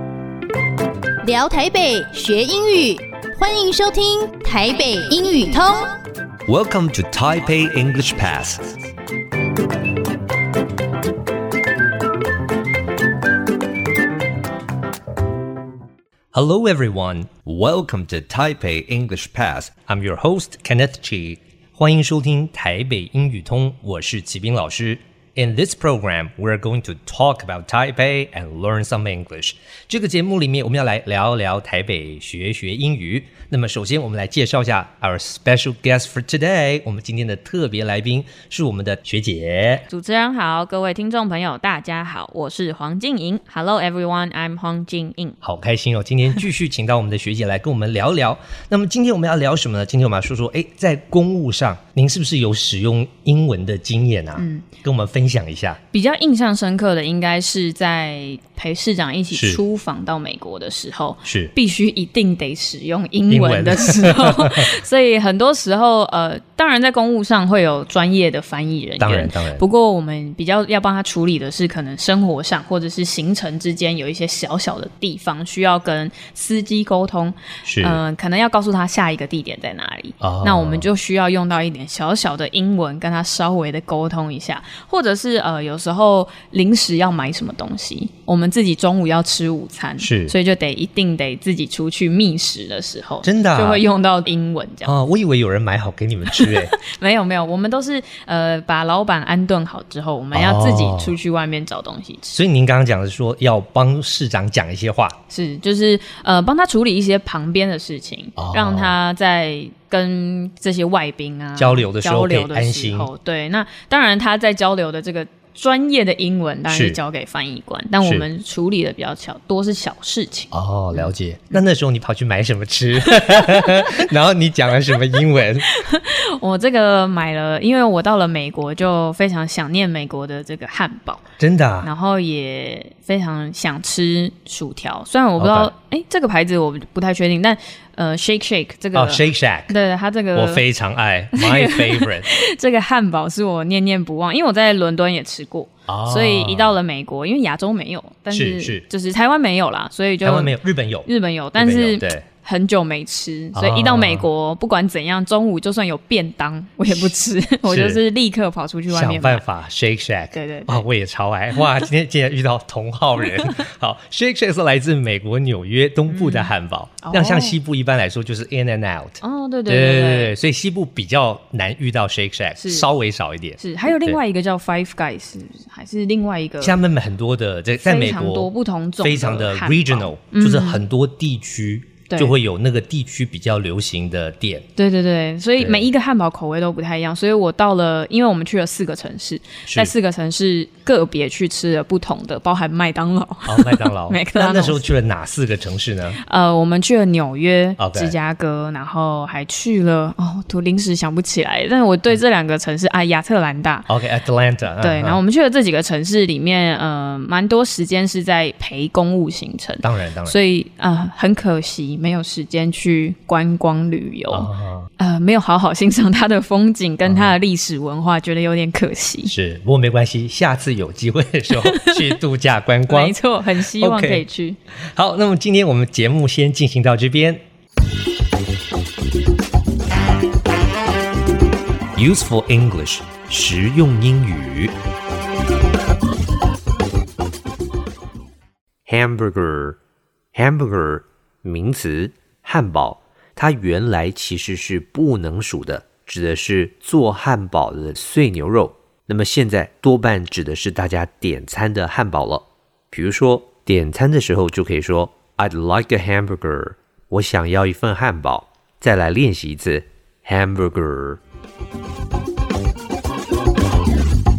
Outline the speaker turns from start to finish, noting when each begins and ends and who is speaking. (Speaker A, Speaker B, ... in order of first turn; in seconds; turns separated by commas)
Speaker A: 1.2-5.9, Speaker B: 6.5-8.7, Speaker B: 16.3-39.9, Speaker C: 39.9-45.4, Speaker B: 45.4-55.8, Speaker C: 54.4-54.7, Speaker C: 55.9-94.9, Speaker B: 59.3-59.6, Speaker B: 61.2-61.5, Speaker B: 63.3-64.7, Speaker B: 69.0-69.6, Speaker B: 77.7-78.0, Speaker B: 80.2-80.9, Speaker B: 90.0-90.3, Speaker B: 93.2-93.8, Speaker B: 94.8-96.7, Speaker C: 96.3-102.3, Speaker B: 100.3-101.2, Speaker B: 102.3-105.2, Speaker C: 105.3-121.1, Speaker B: 108.4-109.0, Speaker B: 111.6-113.1, Speaker B: 116.7-117.0, Speaker B: 120.5-125.7, Speaker C: 123.0-124.1, Speaker C: 125.7-131.2, Speaker B: 131.4-131.9, Speaker C: 131.8-140.7, Speaker B: 135.4-135.7, Speaker B: 138.9-139.7, Speaker B: 140.3-142.3, Speaker C: 141.3-159.4, Speaker B: 145.9-146.8, Speaker B: 148.3-148.8, Speaker B: 150.2-152.2, Speaker B: 153.5-154.3, Speaker B: 157.7-158.0, Speaker B: 158.9-174.2, Speaker C: 160.3-160.8, Speaker C: 166.1-167.6, Speaker C: 169.2-170.3, Speaker C: 172.6-172.9, Speaker C: 173.6-176.8, Speaker B: 176.6-184.6, Speaker C: 177.8-180.8, Speaker C: 182.1-182.3, Speaker C: 184.8-194.8, Speaker B: 185.6-185.9, Speaker B: 189.7-189.9, Speaker B: 193.4-196.2, Speaker C: 196.2-203.9, Speaker B: 197.8-198.2, Speaker B: 203.9-205.2, Speaker C: 204.8-219.3, Speaker B: 209.8-210.4, Speaker B: 214.3-214.9, Speaker B: 217.0-217.4, Speaker B: 219.3-223.2, Speaker C: 221.5-222.2, Speaker C: 222.9-224.6, Speaker B: 223.8-224.2, Speaker B: 224.9-227.4, Speaker B: 232.0-234.7, Speaker B: 238.9-239.8, Speaker B: 240.3-261.2